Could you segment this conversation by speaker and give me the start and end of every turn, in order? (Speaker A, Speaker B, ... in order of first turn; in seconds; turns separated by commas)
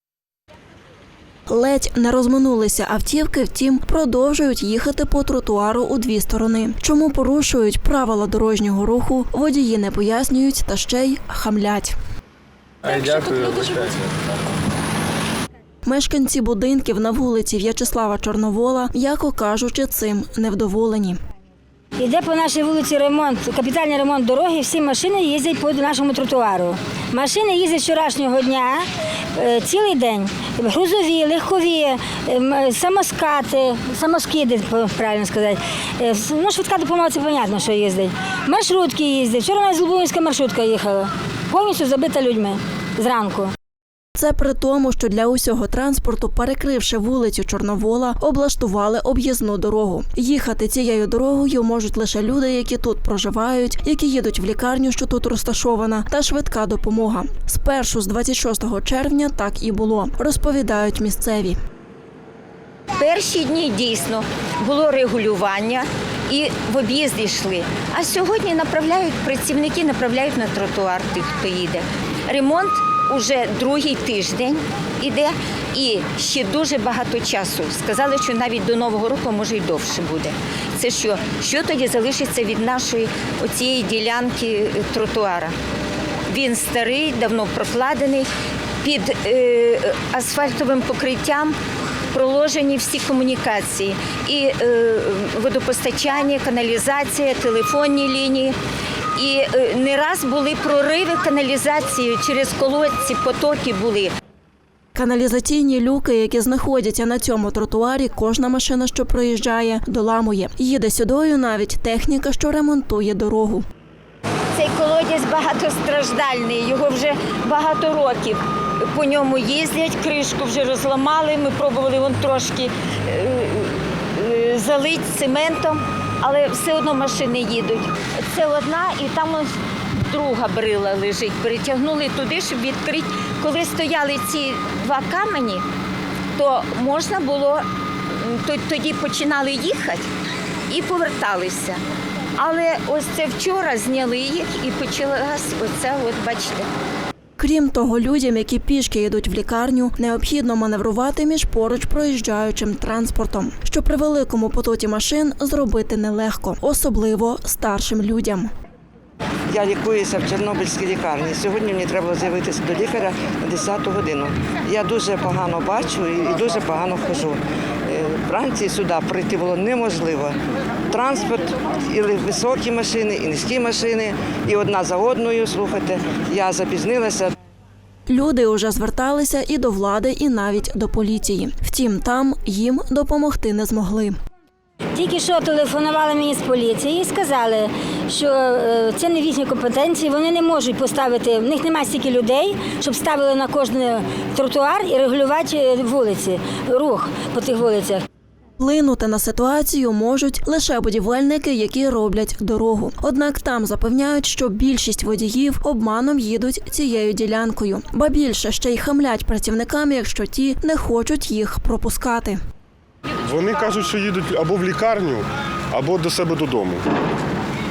Speaker A: 1.5-11.9, Speaker B: 13.0-13.7, Speaker A: 15.8-21.2, Speaker B: 22.0-43.5, Speaker A: 44.1-61.5, Speaker C: 63.0-85.5, Speaker C: 86.3-88.3, Speaker C: 88.8-91.5, Speaker C: 92.1-98.5, Speaker C: 99.2-104.1, Speaker A: 104.9-113.6, Speaker C: 114.5-135.6, Speaker C: 136.3-137.6, Speaker C: 138.2-140.0, Speaker C: 140.7-141.8, Speaker C: 142.4-146.7, Speaker A: 147.4-158.5, Speaker D: 159.5-170.4, Speaker D: 170.9-177.3, Speaker A: 178.1-184.2, Speaker B: 184.9-198.0, Speaker A: 198.6-212.4, Speaker E: 213.2-216.8